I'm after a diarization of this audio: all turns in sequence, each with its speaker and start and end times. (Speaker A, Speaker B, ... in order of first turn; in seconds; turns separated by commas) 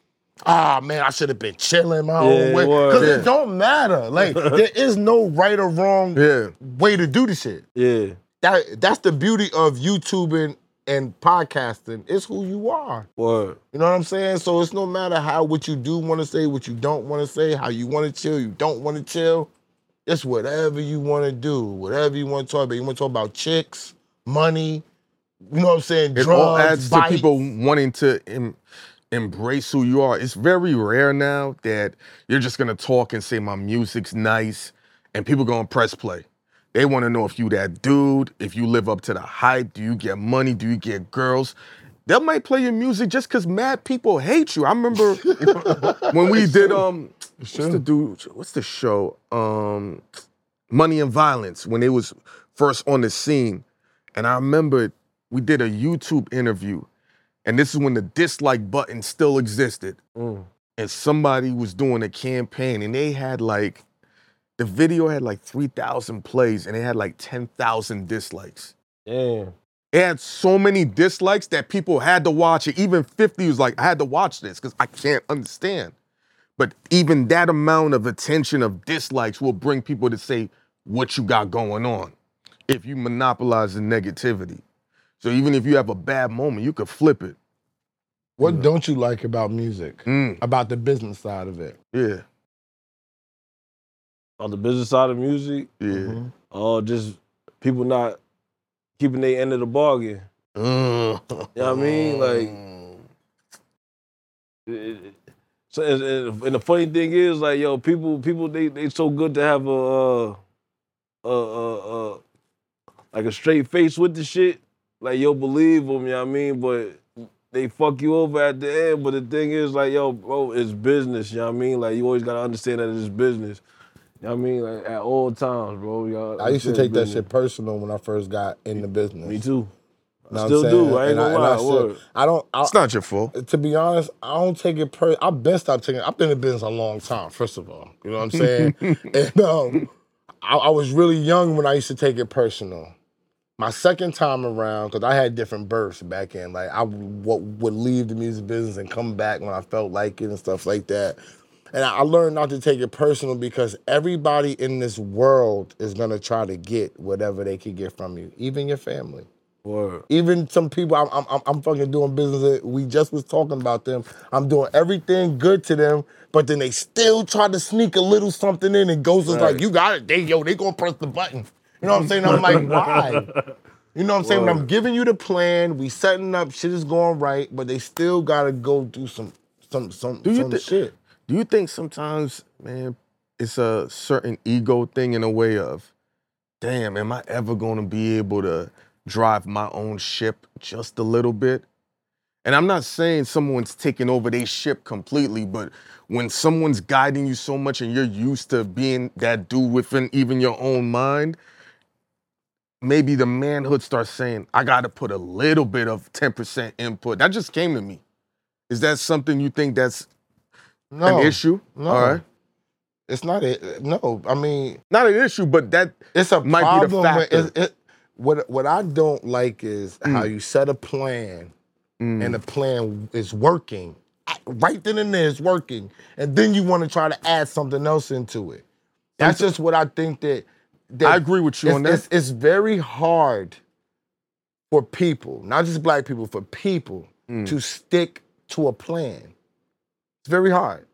Speaker A: 0.5-7.6, Speaker B: 2.2-3.2, Speaker C: 2.9-3.3, Speaker B: 4.2-4.6, Speaker C: 6.1-6.5, Speaker B: 7.7-8.2, Speaker A: 8.4-13.1, Speaker B: 13.2-13.6, Speaker A: 13.7-19.5, Speaker A: 20.1-24.8, Speaker A: 25.5-27.3, Speaker C: 26.1-28.6, Speaker C: 29.1-41.5, Speaker C: 42.1-50.0, Speaker A: 45.0-46.8, Speaker A: 47.4-47.8, Speaker C: 50.7-53.6, Speaker C: 54.1-56.9, Speaker C: 57.4-60.0, Speaker B: 60.1-60.5, Speaker C: 60.8-63.8, Speaker C: 64.6-68.7, Speaker B: 69.0-69.5, Speaker C: 69.9-75.9, Speaker C: 76.6-82.1, Speaker C: 82.7-84.6, Speaker C: 85.2-87.3, Speaker A: 88.4-91.8, Speaker C: 88.4-88.7, Speaker C: 90.0-90.4, Speaker C: 91.9-92.2, Speaker B: 94.4-95.7, Speaker C: 95.8-96.2, Speaker A: 95.9-96.3, Speaker B: 96.5-98.2, Speaker B: 99.0-100.2, Speaker C: 100.5-103.0, Speaker B: 101.5-102.5, Speaker B: 104.7-105.2, Speaker B: 105.7-110.4, Speaker B: 111.2-112.2, Speaker B: 113.1-123.6, Speaker B: 124.2-127.2, Speaker A: 126.4-129.4, Speaker B: 129.2-129.7, Speaker B: 130.3-132.0, Speaker A: 130.3-132.8, Speaker C: 132.6-133.3, Speaker A: 133.3-139.9, Speaker C: 138.3-139.0, Speaker A: 140.4-142.9, Speaker A: 143.6-151.2, Speaker A: 151.7-159.3, Speaker B: 159.6-160.0, Speaker A: 160.1-173.3, Speaker B: 169.3-169.6, Speaker B: 172.2-173.4, Speaker A: 173.9-180.9, Speaker B: 174.2-174.7, Speaker C: 180.2-180.7, Speaker C: 181.3-185.9, Speaker C: 186.6-191.7, Speaker C: 192.4-201.4, Speaker C: 202.8-208.0, Speaker C: 208.7-210.1, Speaker A: 210.9-212.2, Speaker C: 211.0-212.2, Speaker A: 213.1-214.8, Speaker C: 214.9-217.5, Speaker A: 216.1-221.5, Speaker C: 220.0-220.3, Speaker C: 222.0-222.4, Speaker A: 222.2-228.6, Speaker C: 229.2-229.5, Speaker A: 229.2-233.6, Speaker C: 231.0-232.0, Speaker A: 234.7-239.3, Speaker C: 237.3-237.5, Speaker A: 240.2-240.8